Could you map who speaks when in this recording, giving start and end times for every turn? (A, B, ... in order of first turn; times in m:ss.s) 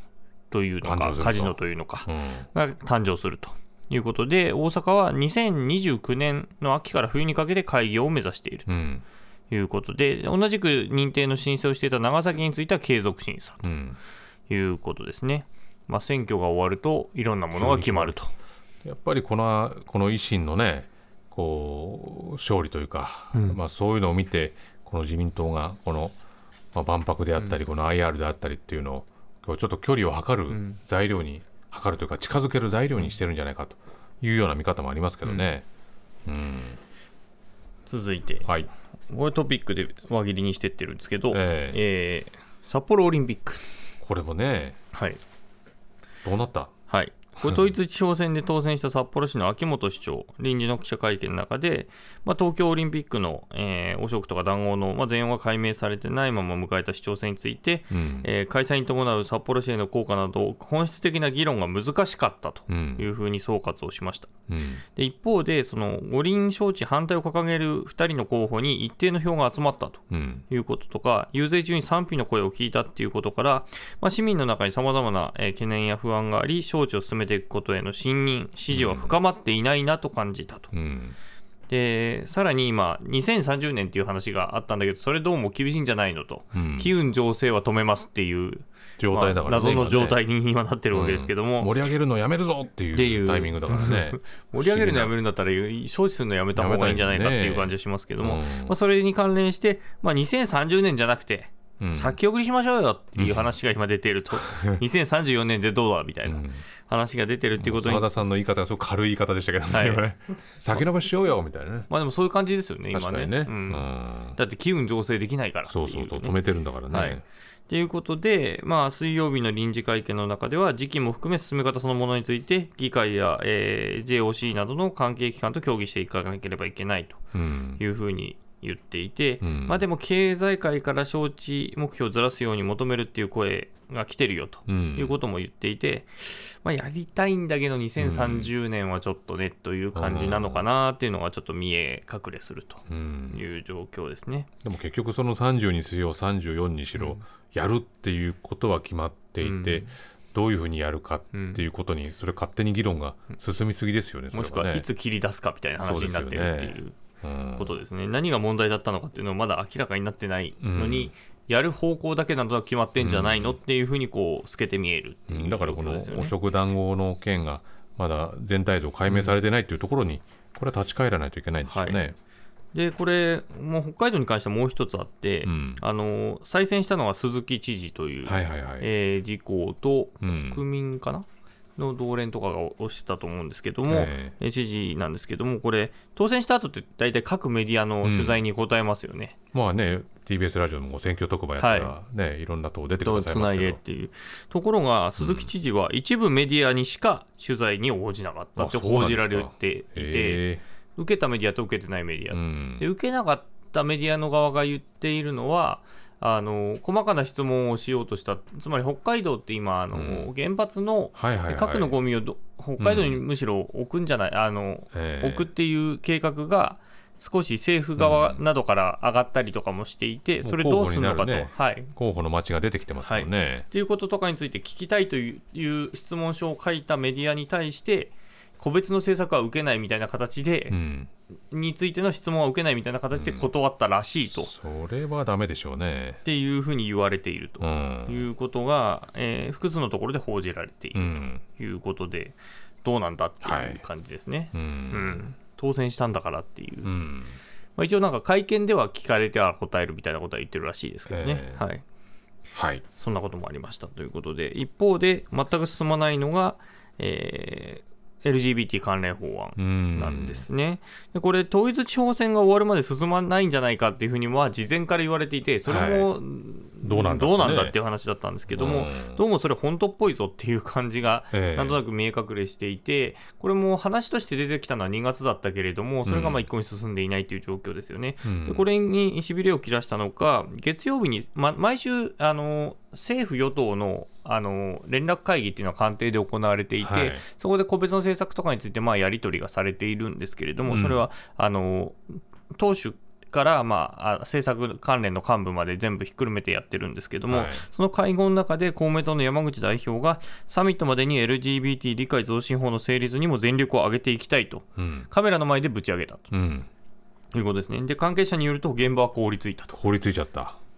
0:00.5-0:08.7 A
0:00.8-0:02.5 B
0:08.7-0:09.0 B
0:09.5-0:13.7 A
0:13.6-0:14.0 B
0:14.5-0:18.3 A
0:17.5-0:18.2 B
0:18.8-0:26.2 B
0:23.3-0:23.6 A
0:26.7-0:35.6 B
0:30.5-0:30.8 A
0:36.3-0:36.8 B
0:37.9-0:38.5 A
0:39.1-0:43.6 A
0:41.3-0:41.8 B
0:44.0-0:44.8 B
0:44.9-0:45.2 A
0:46.2-0:46.7 B
0:46.9-1:04.3 A
0:57.9-0:58.3 B
1:02.7-1:03.0 B
1:04.5-1:04.8 B
1:04.9-1:20.7 A
1:10.1-1:10.4 B
1:18.7-1:19.2 B
1:20.7-1:21.2 B
1:21.7-1:31.7 A
1:26.5-1:26.9 B
1:29.0-1:30.2 B
1:30.9-1:35.1 B
1:32.9-1:48.1 A
1:36.6-1:38.8 B
1:41.8-1:42.2 B
1:43.2-1:43.5 B
1:44.4-1:44.7 B
1:46.2-1:46.6 B
1:47.6-1:51.9 B
1:49.7-1:50.0 A
1:51.9-1:56.4 A
1:52.9-1:54.4 B
1:55.7-1:57.2 B
1:56.9-2:07.2 A
2:07.3-2:07.8 B
2:07.8-2:24.5 A
2:09.4-2:09.8 B
2:14.7-2:15.2 B
2:18.0-2:18.5 B
2:19.9-2:20.6 B
2:22.9-2:23.4 B
2:24.6-2:34.9 B
2:27.0-2:27.2 A
2:29.4-2:30.0 A
2:31.3-2:31.6 A
2:34.3-2:37.0 A
2:35.8-2:37.8 B
2:37.5-2:46.3 A
2:40.6-2:41.1 B
2:43.0-2:43.6 B
2:45.3-2:52.2 B
2:49.1-2:49.4 A
2:51.7-2:52.0 A
2:52.7-3:01.3 A
2:55.5-2:55.8 B
2:58.2-2:58.9 B
3:00.2-3:00.6 B
3:01.8-3:09.4 A
3:03.9-3:04.3 B
3:08.0-3:08.4 B
3:09.5-3:13.8 B
3:11.6-3:11.9 A
3:13.0-3:20.4 A
3:15.2-3:15.5 B
3:18.6-3:20.6 B
3:21.0-3:41.9 A
3:22.3-3:22.9 B
3:29.9-3:30.3 B
3:31.2-3:32.0 B
3:32.8-3:33.2 B
3:34.9-3:35.5 B
3:38.0-3:38.4 B
3:40.4-3:43.7 B
3:43.0-3:50.8 A
3:50.7-3:51.1 B
3:51.5-3:54.5 A
3:53.1-3:53.5 B
3:54.3-3:56.2 B
3:56.2-4:06.9 A
3:57.6-3:58.2 B
4:01.0-4:01.4 B
4:03.4-4:03.8 B
4:04.5-4:05.2 B
4:06.8-4:07.4 B
4:07.8-4:11.8 A
4:11.1-4:11.6 B
4:12.5-4:12.8 B
4:13.0-5:06.3 A
4:19.6-4:20.4 B
4:25.7-4:26.1 B
4:26.8-4:27.8 B
4:28.5-4:29.2 B
4:31.3-4:31.8 B
4:36.1-4:36.4 B
4:38.2-4:38.6 B
4:46.8-4:47.2 B
4:50.7-4:51.0 B
4:57.3-4:57.7 B
5:04.8-5:05.1 B
5:06.3-5:06.7 B
5:07.3-5:09.8 A
5:09.7-5:10.6 B